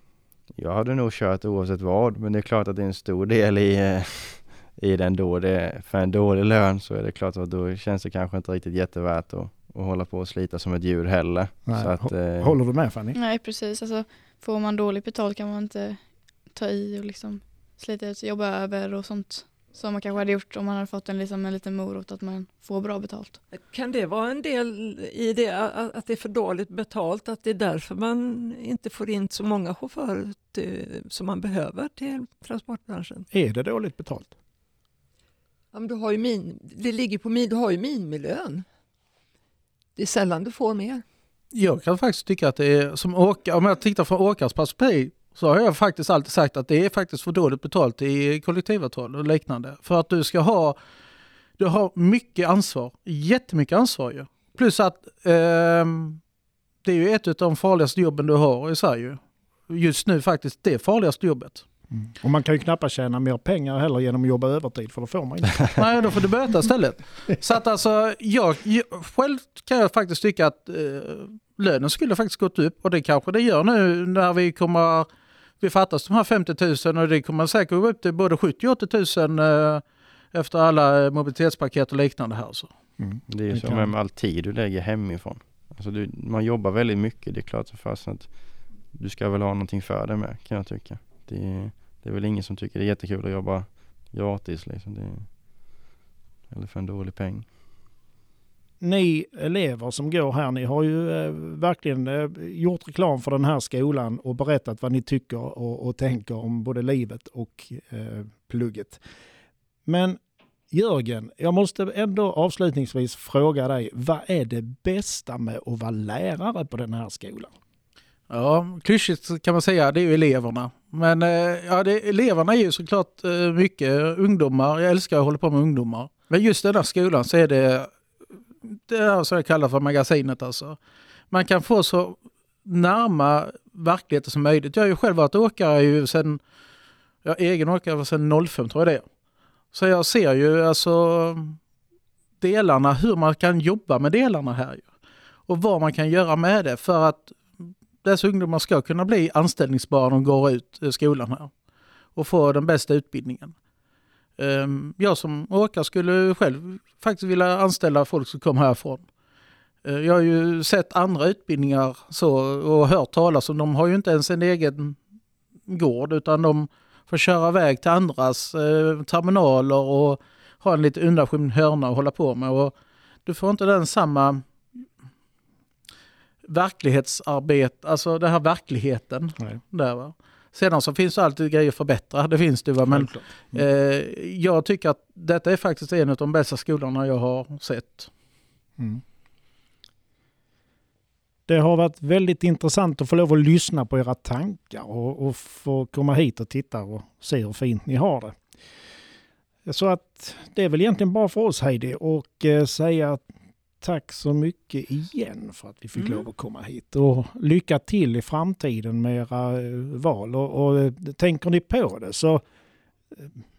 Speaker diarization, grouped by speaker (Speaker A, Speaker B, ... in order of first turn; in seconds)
Speaker A: 0.6-12.6, 83.3-88.3, 88.9-95.3, 96.5-97.5
Speaker B: 11.7-13.2, 33.3-34.3, 61.9-66.1, 83.0-83.9, 98.8-109.0, 109.9-110.2, 110.7-117.5, 182.9-183.6, 188.8-189.0, 191.5-198.4, 199.7-203.3, 203.8-212.4, 213.1-213.4
Speaker C: 13.2-23.4
Speaker D: 23.5-33.3, 35.7-38.6, 40.0-41.0
Speaker E: 41.5-50.8, 51.6-56.2, 56.8-61.6, 65.8-75.1, 75.6-82.7, 118.3-127.9, 128.7-130.8, 131.3-136.4, 137.2-139.1, 139.7-141.6, 142.4-144.9, 145.5-151.5, 152.2-153.6, 154.4-159.1, 159.8-165.0, 165.7-172.7, 173.3-174.5, 176.4-188.1